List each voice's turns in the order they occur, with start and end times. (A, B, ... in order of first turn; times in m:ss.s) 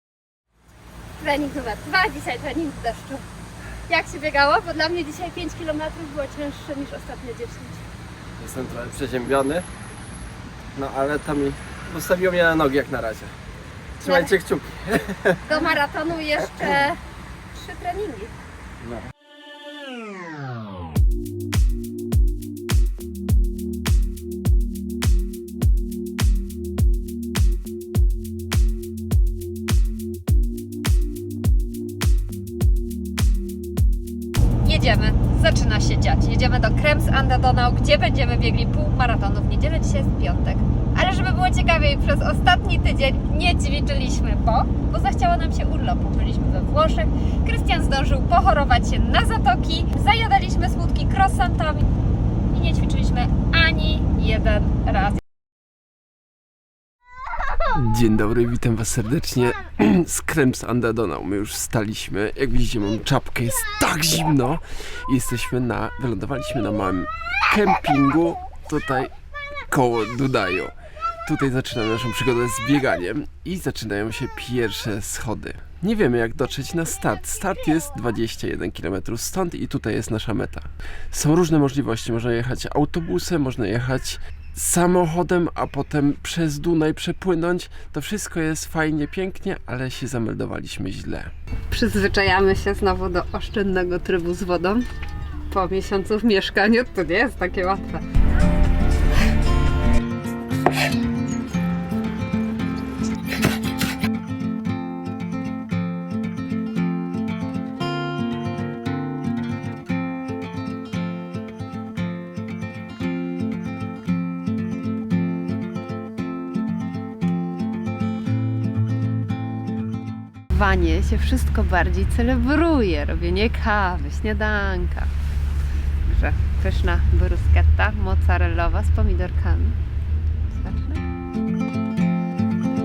0:01.2-0:03.2 A
0:03.9-0:07.8 A
0:08.4-0:09.6 B
0:10.8-0:13.3 B
0:14.0-0:15.6 B
0:14.0-0:14.3 A
0:15.5-0:17.0 A
0:17.6-0:18.3 C
0:17.7-0:18.3 A
0:34.6-0:51.9 C
0:52.5-0:55.2 C
0:57.7-1:09.1 D
1:09.7-1:10.7 D
1:11.2-1:31.3 D
1:31.7-1:34.9 C
1:35.5-1:38.0 C
2:00.5-2:05.1 C
2:06.0-2:09.8 C
2:10.5-2:11.0 C